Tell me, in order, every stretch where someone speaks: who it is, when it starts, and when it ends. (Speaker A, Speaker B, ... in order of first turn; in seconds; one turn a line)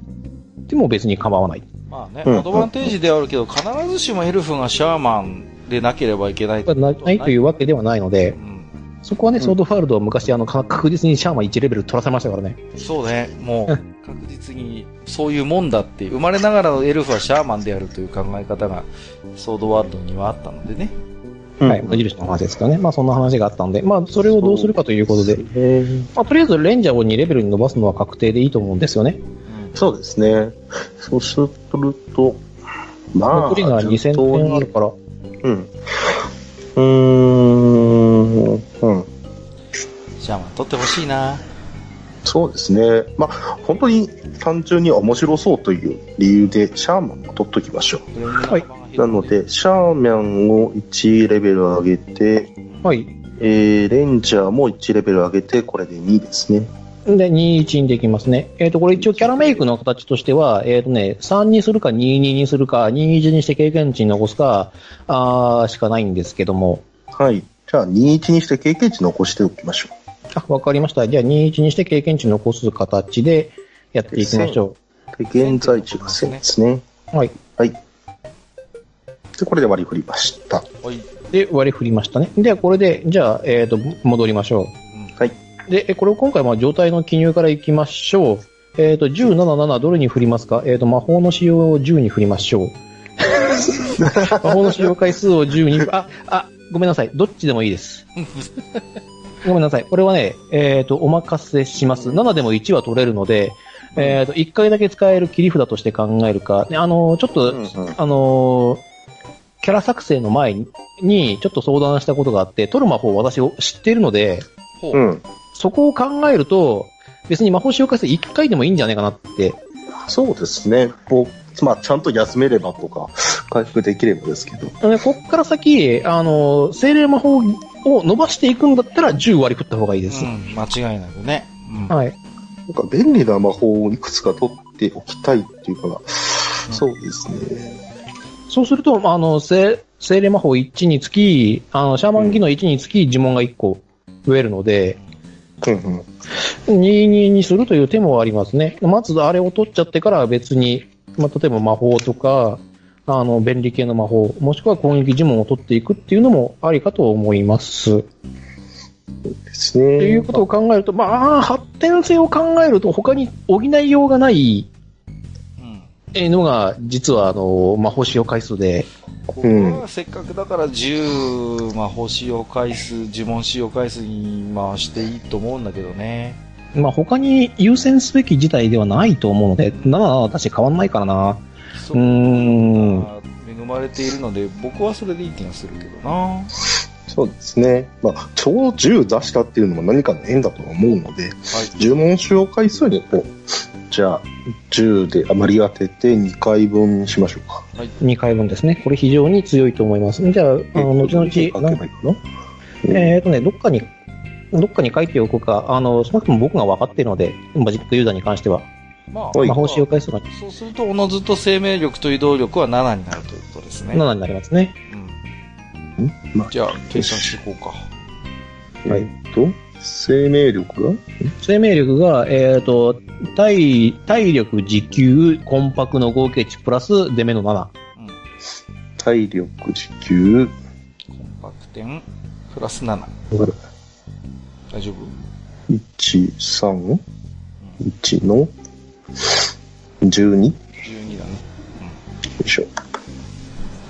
Speaker A: 0.7-1.6
Speaker B: 1.9-7.4
Speaker C: 2.2-2.9
Speaker A: 6.7-8.4
Speaker B: 8.3-8.7
Speaker A: 9.0-12.6
Speaker B: 12.8-20.9
Speaker C: 21.6-22.0
Speaker A: 21.6-25.4
Speaker C: 24.3-26.1
Speaker A: 26.1-29.2
Speaker B: 29.5-29.7
Speaker C: 29.7-32.4
Speaker C: 33.1-34.7
Speaker A: 33.3-34.9
Speaker C: 35.4-36.2
Speaker C: 36.8-39.1
Speaker B: 40.2-41.4
Speaker C: 42.2-48.1
Speaker B: 48.1-49.4
Speaker C: 49.0-52.5
Speaker A: 52.8-53.1
Speaker C: 53.4-56.7
Speaker A: 57.1-66.8
Speaker C: 58.9-59.6
Speaker C: 67.1-69.9
Speaker A: 70.3-74.8
Speaker C: 74.1-74.6
Speaker C: 75.1-76.8
Speaker B: 75.3-76.4
Speaker C: 79.4-80.7
Speaker B: 80.8-81.1
Speaker A: 81.3-84.7
Speaker A: 85.7-98.0
Speaker C: 94.0-94.8
Speaker B: 98.2-98.8
Speaker A: 99.4-108.8
Speaker C: 107.5-108.0
Speaker A: 109.6-114.5
Speaker C: 114.9-115.2
Speaker A: 115.5-119.6
Speaker C: 120.1-124.7
Speaker A: 124.8-130.3
Speaker B: 130.1-131.9
Speaker A: 131.9-132.1
Speaker C: 132.7-137.8
Speaker A: 138.5-145.0
Speaker C: 142.2-142.4
Speaker C: 145.6-146.1
Speaker A: 146.7-158.1
Speaker C: 159.3-160.4
Speaker A: 160.0-164.7
Speaker B: 165.6-165.9
Speaker A: 166.1-168.9
Speaker C: 169.3-169.8
Speaker B: 169.4-176.4
Speaker A: 176.7-181.4
Speaker B: 181.8-186.6
Speaker A: 181.9-183.1
Speaker C: 187.1-193.3
Speaker B: 191.5-191.8
Speaker C: 193.9-197.6
Speaker A: 198.0-201.8
Speaker C: 200.7-202.2
Speaker C: 202.8-203.1
Speaker A: 202.9-203.9
Speaker A: 204.5-208.7
Speaker B: 209.1-214.0
Speaker C: 209.3-209.6
Speaker A: 209.4-210.2
Speaker A: 213.9-214.7
Speaker B: 214.9-215.2
Speaker C: 216.0-217.3
Speaker B: 216.5-217.9
Speaker C: 218.8-221.0
Speaker A: 221.4-227.7
Speaker C: 229.0-230.6
Speaker B: 231.1-233.1
Speaker C: 233.3-233.6
Speaker B: 234.7-235.1
Speaker C: 235.7-237.0
Speaker C: 237.8-238.5
Speaker C: 240.0-240.6
Speaker B: 240.8-242.0
Speaker C: 242.4-242.7